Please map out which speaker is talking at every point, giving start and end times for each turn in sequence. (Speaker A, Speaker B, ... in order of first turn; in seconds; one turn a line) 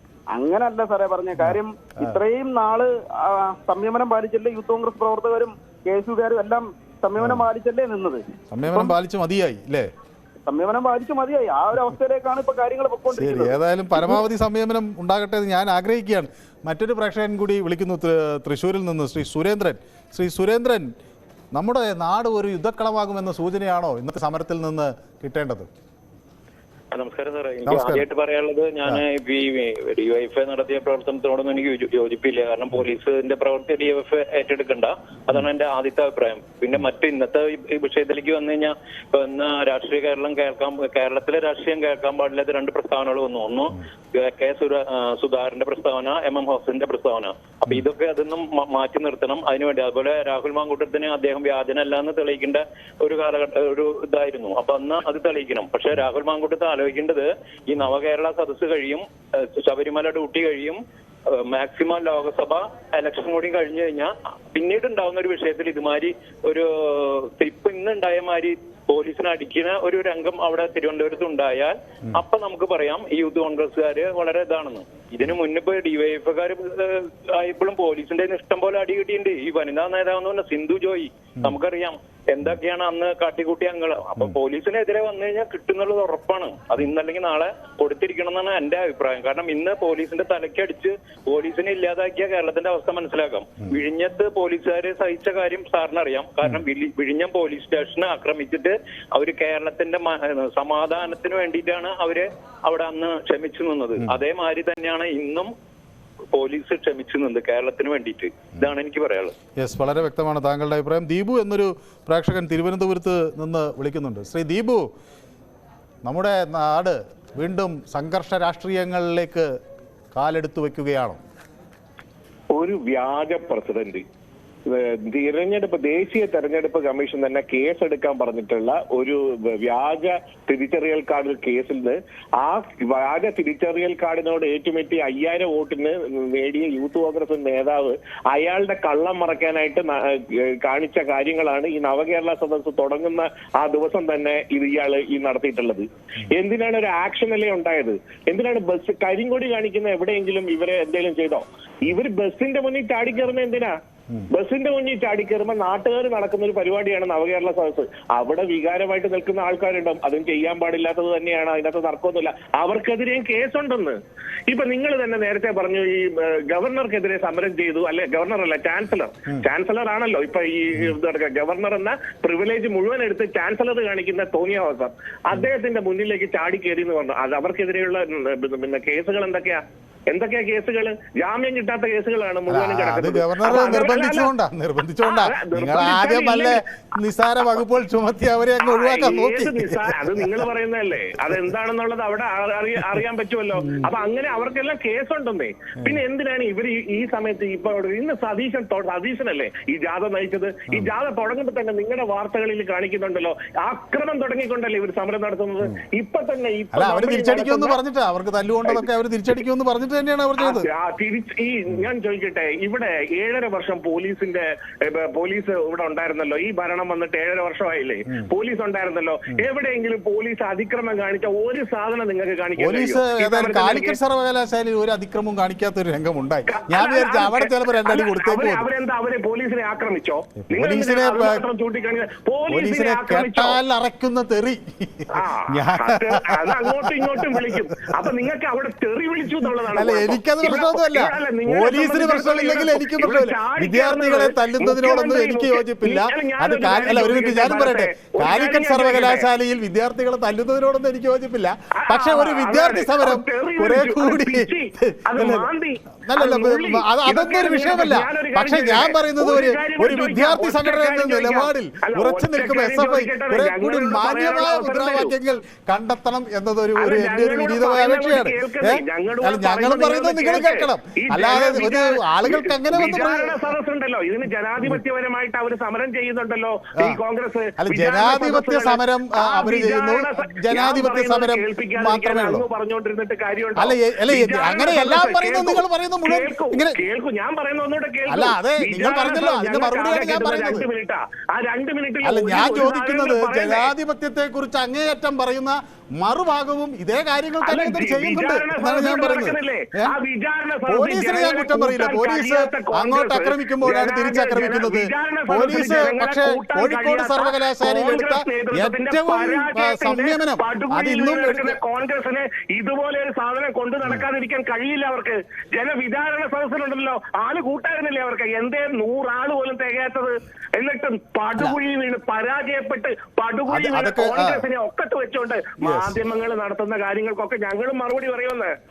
Speaker A: 0.3-8.2
Speaker B: 1.4-2.2
Speaker B: 7.2-7.5
Speaker B: 8.5-9.9
Speaker A: 10.5-13.4
Speaker B: 13.1-20.9
Speaker B: 21.5-25.7
Speaker C: 26.9-60.8
Speaker B: 27.7-28.0
Speaker C: 61.3-105.5
Speaker C: 106.3-109.3
Speaker B: 109.6-114.9
Speaker B: 116.0-119.5
Speaker B: 120.1-121.2
Speaker D: 122.5-124.0
Speaker D: 124.7-153.7
Speaker D: 154.3-164.0
Speaker D: 164.5-184.3
Speaker B: 182.5-190.4
Speaker D: 185.0-186.6
Speaker D: 188.6-207.8
Speaker B: 193.6-193.9
Speaker B: 206.7-210.7
Speaker D: 210.4-224.0
Speaker B: 222.6-228.7
Speaker D: 226.5-233.6
Speaker B: 230.4-231.4
Speaker B: 232.5-238.1
Speaker D: 235.1-249.3
Speaker B: 239.6-255.5
Speaker D: 251.8-265.1
Speaker B: 256.1-273.4
Speaker D: 266.8-293.7
Speaker B: 277.6-282.4
Speaker B: 283.6-286.8
Speaker B: 288.1-290.7
Speaker B: 292.0-300.0
Speaker D: 297.4-328.5
Speaker B: 300.7-311.6
Speaker B: 323.5-324.4
Speaker B: 325.6-326.0